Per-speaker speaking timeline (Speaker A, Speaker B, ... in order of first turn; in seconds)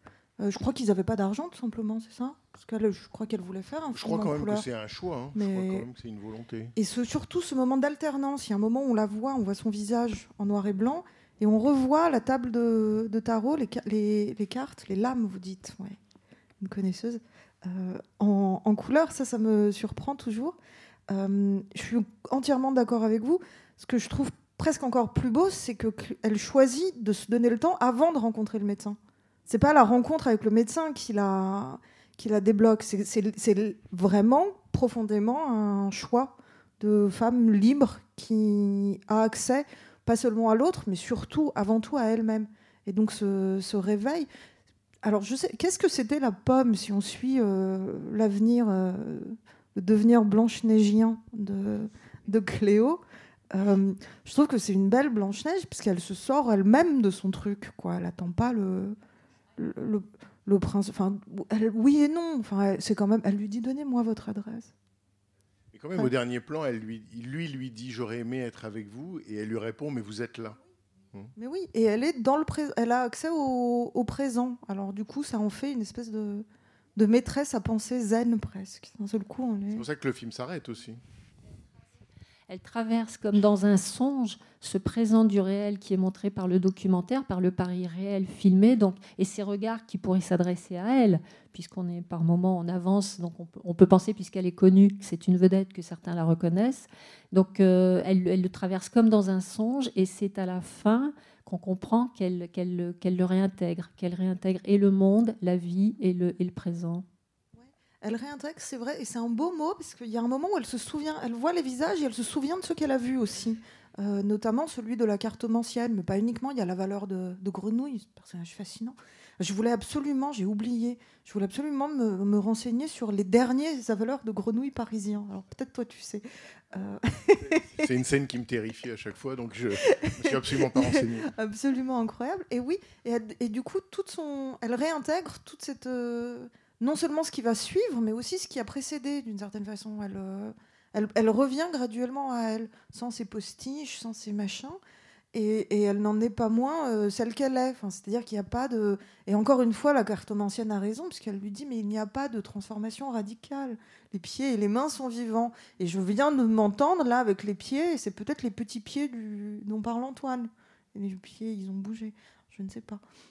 Speaker A: 0.4-4.7, 5.3-5.8, 6.8-16.0, 16.6-20.6, 21.1-44.3, 45.0-59.0, 59.6-64.7, 71.4-76.5, 77.0-79.8, 107.5-127.8, 129.8-144.8, 145.3-163.0
Speaker B: 3.9-6.7, 65.7-70.6, 79.7-81.0, 127.4-131.3
Speaker C: 82.5-107.0